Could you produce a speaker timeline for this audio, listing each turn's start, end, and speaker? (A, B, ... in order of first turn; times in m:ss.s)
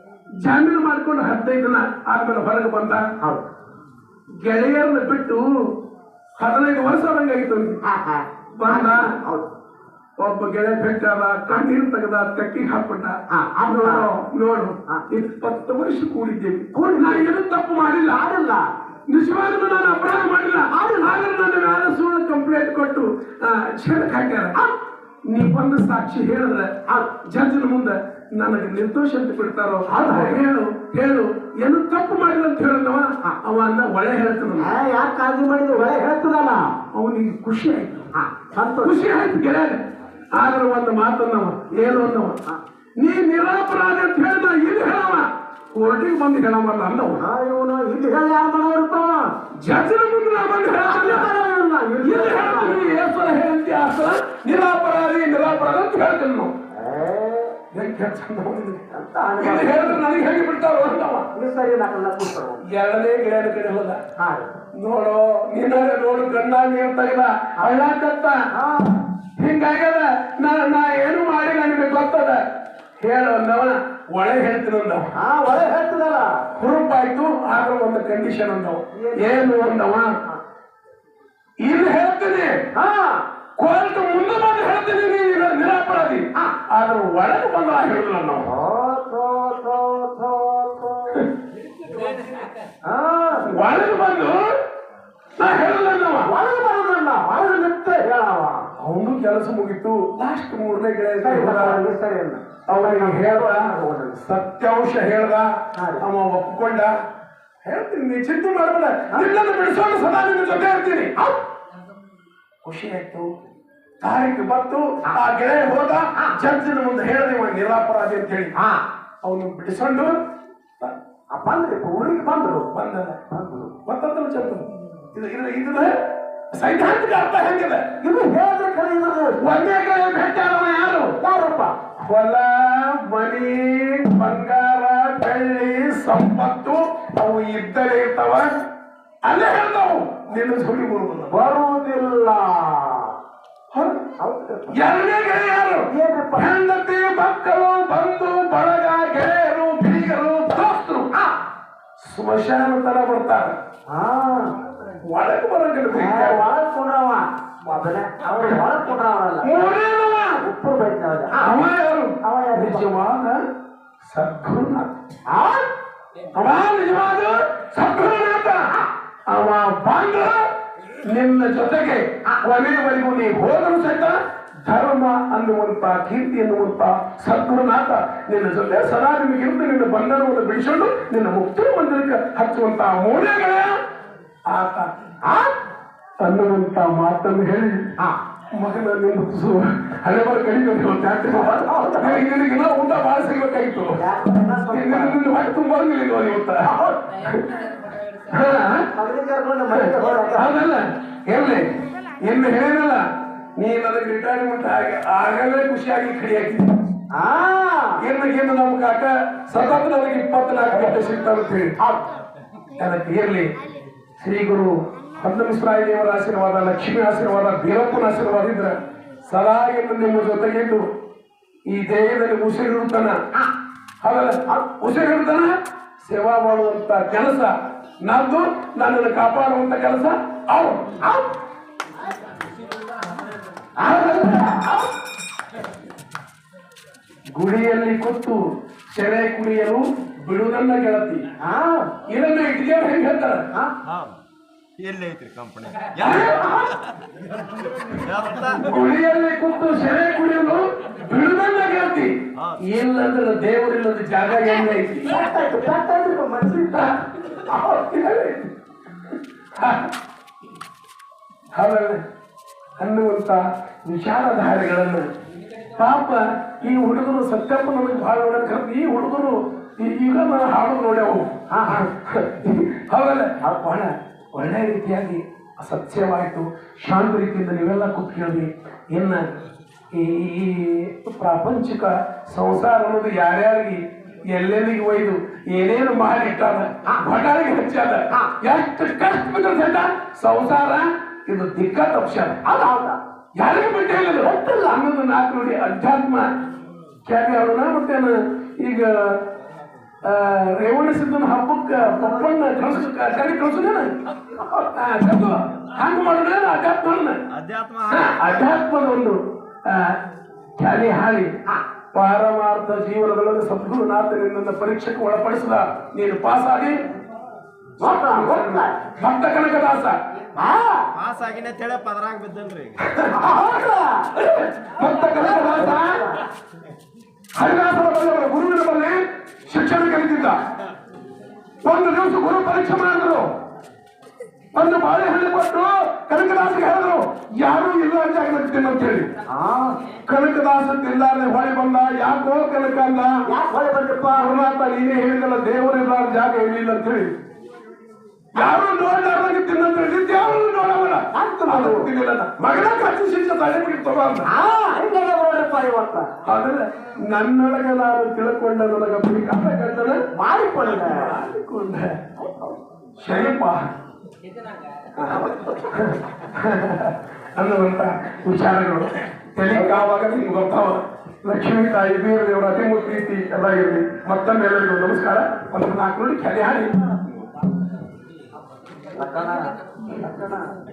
0:00.4-0:03.1 A
0:03.2-0:03.4 B
0:04.4-0:05.7 A
0:06.4-0:07.8 A
0:07.8-0:09.5 B
0:08.6-0:09.2 A
0:10.2-0:18.2 A
0:13.3-0:14.1 B
0:16.7-0:17.3 B
0:18.0-0:18.7 B
0:19.1-0:24.6 A
0:20.7-0:21.2 B
0:25.3-0:34.7 A
0:29.9-0:30.4 B
0:34.6-0:36.7 B
0:36.9-0:38.1 A
0:38.1-0:39.1 B
0:38.8-0:39.8 A
0:40.4-0:42.4 A
0:43.0-0:47.2 A
0:47.2-0:49.3 B
0:49.6-0:51.3 A
0:50.8-0:52.8 B
0:52.0-0:56.5 A
0:56.7-0:57.6 B
0:57.7-0:58.9 A
0:58.9-1:00.0 B
0:59.4-1:01.3 A
1:01.3-1:02.6 B
1:02.7-1:04.0 A
1:04.2-1:04.6 B
1:04.8-1:08.4 A
1:08.5-1:09.0 B
1:09.4-1:12.4 A
1:13.0-1:15.1 A
1:15.2-1:16.4 B
1:16.6-1:20.1 A
1:18.9-1:19.5 B
1:21.6-1:22.6 A
1:22.8-1:23.2 B
1:23.6-1:28.5 A
1:28.4-1:31.2 B
1:32.8-1:33.5 B
1:33.5-1:34.5 A
1:35.4-1:36.3 A
1:36.2-1:38.7 B
1:38.8-1:41.9 A
1:41.2-1:44.2 B
1:42.7-1:46.9 A
1:45.8-1:46.1 B
1:47.6-1:51.1 A
1:52.6-1:53.3 A
1:54.0-1:58.5 A
1:58.6-1:58.8 B
1:59.2-2:00.2 A
2:01.3-2:02.7 B
2:02.7-2:03.2 A
2:03.3-2:03.8 B
2:03.8-2:06.0 A
2:06.5-2:07.9 A
2:08.0-2:09.4 B
2:09.4-2:11.2 A
2:11.2-2:11.8 B
2:12.0-2:18.5 A
2:19.2-2:21.4 A
2:21.3-2:23.2 B
2:23.7-2:24.0 A
2:24.2-2:24.8 B
2:24.7-2:31.1 A
2:25.9-2:26.5 B
2:32.0-2:33.6 A
2:33.9-2:34.6 B
2:35.0-2:36.4 A
2:35.9-2:39.5 B
2:38.3-2:38.6 A
2:39.4-2:40.4 A
2:40.4-2:41.6 B
2:41.4-2:43.4 A
2:42.2-2:42.9 B
2:44.0-2:45.0 A
2:45.3-2:45.7 B
2:46.3-2:48.7 A
2:49.3-2:50.5 A
2:51.0-3:03.8 A
3:04.5-3:04.9 A
3:05.2-3:05.5 B
3:06.2-3:07.8 A
3:08.6-3:14.0 A
3:11.3-3:12.2 B
3:14.0-3:15.2 B
3:14.7-3:16.7 A
3:16.6-3:17.0 B
3:17.2-3:17.6 A
3:18.3-3:18.9 A
3:18.9-3:20.6 B
3:19.7-3:21.7 A
3:22.2-3:23.0 A
3:23.6-3:26.7 A
3:27.1-3:28.0 B
3:28.0-3:31.8 A
3:31.8-3:32.0 B
3:32.8-3:33.5 A
3:34.2-3:40.8 A
3:41.7-3:43.2 A
3:44.0-3:51.0 A
3:51.0-3:51.3 B
3:53.8-3:54.8 B
3:53.8-3:54.8 A
3:57.4-3:58.4 A
3:58.9-4:01.2 A
4:01.4-4:01.9 B
4:02.1-4:03.5 A
4:03.8-4:04.2 C
4:04.8-4:06.9 C
4:06.0-4:06.5 A
4:06.0-4:06.7 B
4:07.8-4:08.7 C
4:08.6-4:15.1 A
4:12.4-4:12.6 C
4:15.1-4:16.9 B
4:16.7-4:18.5 A
4:19.6-4:19.9 A
4:21.5-4:22.0 A
4:22.8-4:25.1 A
4:25.8-4:39.4 A
4:31.5-4:31.9 B
4:39.9-4:52.4 A
4:52.4-4:53.0 B
4:53.4-4:56.3 A
4:54.2-4:54.8 B
4:57.1-4:59.2 A
5:00.0-5:04.0 A
5:01.8-5:02.9 B
5:04.3-5:04.7 B
5:04.7-5:07.2 A
5:07.3-5:08.3 C
5:07.9-5:10.0 A
5:10.6-5:11.3 A
5:11.9-5:16.8 A
5:17.8-5:18.8 B
5:17.8-5:20.0 A
5:20.4-5:20.9 B
5:21.0-5:22.9 C
5:22.8-5:23.2 A
5:23.1-5:24.1 B
5:24.2-5:26.0 A
5:25.1-5:26.2 B
5:27.4-5:30.4 A
5:31.6-5:33.3 A
5:34.5-5:39.1 A
5:39.3-5:39.8 B
5:40.1-5:43.2 A
5:43.2-5:44.3 B
5:44.2-5:47.1 A
5:48.3-5:54.3 A
5:51.1-5:51.9 B
5:54.3-5:56.1 B
5:56.2-6:00.0 A
6:00.1-6:01.1 B
6:00.7-6:02.0 A
6:02.2-6:02.6 B
6:03.0-6:03.6 A
6:05.0-6:17.3 A
6:05.0-6:05.6 B
6:09.5-6:09.8 B
6:19.0-6:20.5 B